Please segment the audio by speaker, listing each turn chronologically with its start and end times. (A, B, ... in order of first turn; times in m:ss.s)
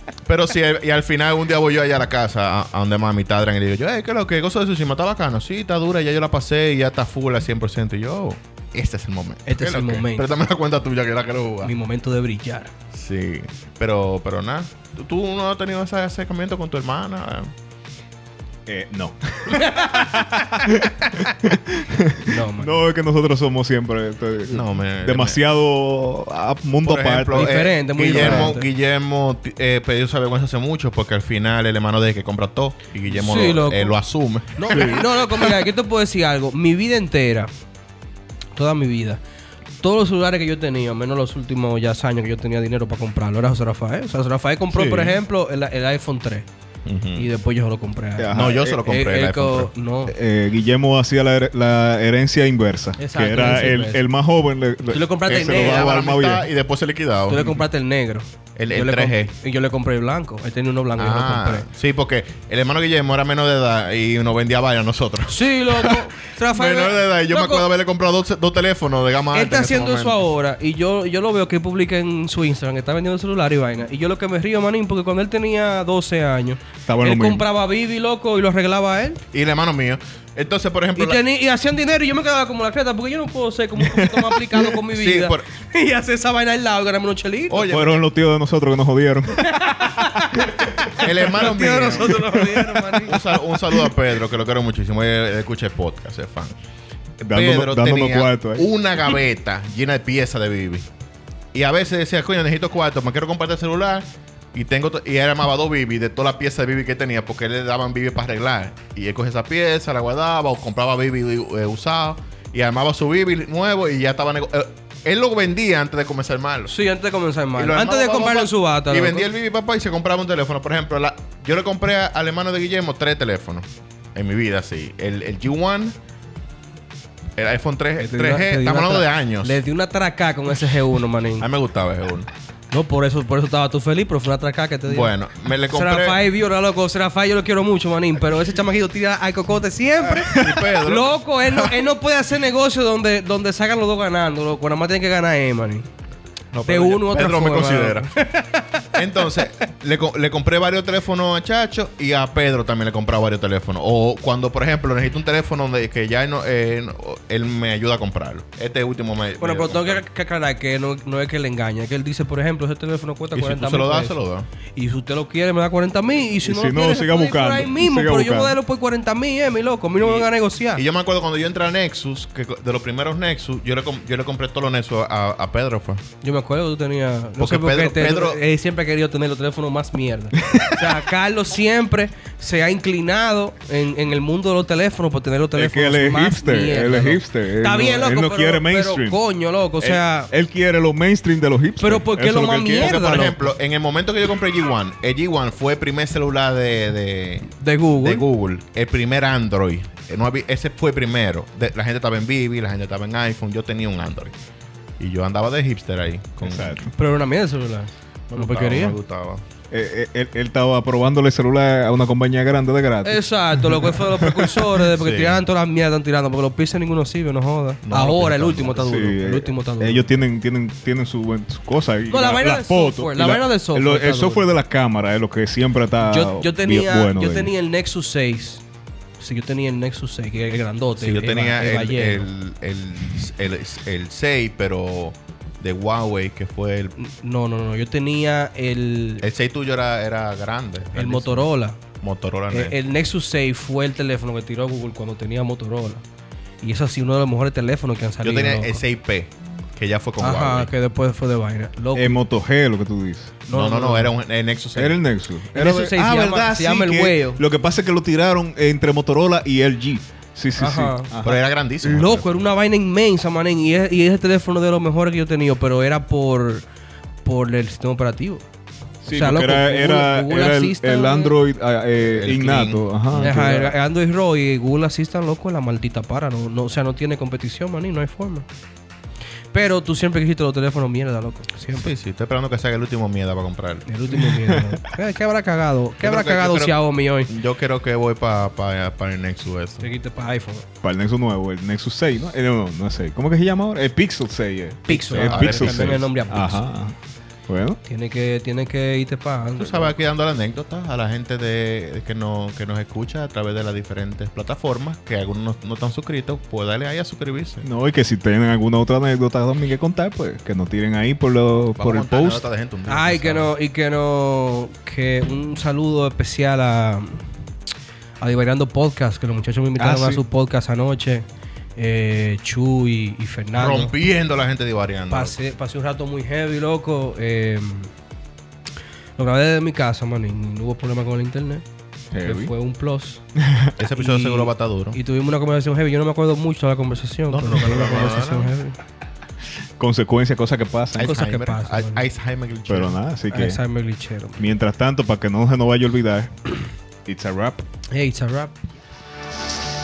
0:00.2-0:11.7 A
0:09.5-0:10.3 B
0:11.6-0:12.7 B
0:12.9-0:17.5 A
0:18.7-0:27.5 C
0:19.5-0:20.1 B
0:22.2-0:22.8 B
0:24.5-0:25.4 A
0:26.8-0:35.4 A
0:27.4-0:28.7 B
0:28.1-0:28.5 C
0:33.1-0:34.0 B
0:34.6-0:37.5 B
0:34.7-0:35.1 C
0:38.5-0:39.2 B
0:39.8-0:46.5 B
0:44.7-0:45.2 A
0:46.9-0:47.2 A
0:47.1-0:50.1 B
0:48.2-0:48.8 C
0:48.3-0:49.7 A
0:50.1-0:56.5 C
0:53.0-0:54.0 B
0:54.9-0:55.9 B
0:55.3-0:57.6 A
0:57.3-1:01.6 B
0:58.6-0:59.3 A
1:01.0-1:10.2 A
1:05.3-1:07.6 B
1:09.3-1:19.2 B
1:16.9-1:17.4 C
1:19.3-1:21.2 A
1:21.0-1:27.7 B
1:23.8-1:24.4 C
1:25.0-1:25.5 A
1:27.5-1:28.0 A
1:27.7-1:29.5 C
1:29.4-1:33.2 B
1:31.0-1:32.5 A
1:32.2-1:33.0 C
1:33.0-1:36.5 A
1:37.2-1:38.7 C
1:37.3-1:40.9 A
1:41.5-1:56.7 A
1:56.7-1:59.3 B
1:57.6-2:05.9 A
2:07.4-2:09.6 A
2:08.0-2:11.5 B
2:11.4-2:12.3 A
2:12.7-2:15.1 B
2:14.9-2:16.2 A
2:15.7-2:25.9 B
2:20.0-2:21.8 A
2:26.5-2:28.0 A
2:26.6-2:29.4 B
2:29.0-2:40.0 A
2:39.4-2:44.2 B
2:43.3-2:44.5 A
2:44.8-2:50.8 B
2:46.4-2:48.6 C
2:50.0-2:56.0 A
2:56.2-3:10.3 B
2:57.4-2:58.4 A
3:00.4-3:01.0 C
3:05.6-3:09.2 C
3:09.8-3:13.0 C
3:11.8-3:13.5 B
3:12.8-3:17.5 A
3:17.5-3:18.2 B
3:18.0-3:24.3 A
3:25.0-3:26.8 A
3:26.4-3:26.9 C
3:26.9-3:29.0 B
3:28.3-3:29.4 A
3:29.7-3:34.8 C
3:33.0-3:40.1 B
3:35.0-3:35.4 A
3:37.8-3:39.0 A
3:38.8-3:47.5 C
3:42.1-3:44.5 B
3:46.0-3:48.6 B
3:49.2-3:52.3 B
3:51.0-3:57.0 A
3:57.0-3:59.2 B
3:59.2-4:01.5 A
4:01.0-4:01.8 B
4:02.0-4:02.8 A
4:02.5-4:06.0 B
4:06.6-4:08.8 B
4:08.2-4:10.7 A
4:10.2-4:12.2 B
4:11.9-4:13.3 C
4:13.5-4:14.1 B
4:13.5-4:15.0 A
4:14.8-4:21.4 C
4:15.5-4:17.4 B
4:20.6-4:21.1 B
4:21.2-4:22.4 A
4:21.8-4:26.6 B
4:27.2-4:28.4 B
4:29.0-4:33.8 C
4:29.0-4:31.4 B
4:32.1-4:33.4 A
4:33.2-4:38.5 B
4:39.5-4:41.9 B
4:41.7-4:43.8 A
4:43.9-4:47.3 B
4:44.1-4:44.8 C
4:46.0-4:49.8 A
4:49.8-4:50.6 B
4:50.8-4:57.0 C
4:54.9-4:56.6 B
4:55.1-4:56.0 A
4:57.5-4:57.8 C
4:57.8-5:00.0 B
4:59.6-5:07.6 A
5:07.6-5:12.4 C
5:11.8-5:13.5 A
5:12.9-5:17.2 B
5:18.2-5:21.2 B
5:19.8-5:20.2 C
5:21.8-5:23.9 B
5:23.6-5:25.4 A
5:25.1-5:27.9 B
5:29.2-5:31.6 B
5:32.1-5:32.5 C
5:32.2-5:33.2 B
5:33.4-5:33.7 C
5:33.8-5:35.0 A
5:34.0-5:38.8 B
5:37.3-5:38.5 A
5:39.8-5:41.1 C
5:41.0-5:43.0 A
5:41.0-5:42.0 B
5:42.7-5:43.6 C
5:43.3-5:44.6 B
5:44.4-5:46.5 C
5:47.0-5:47.6 C
5:47.9-5:48.5 B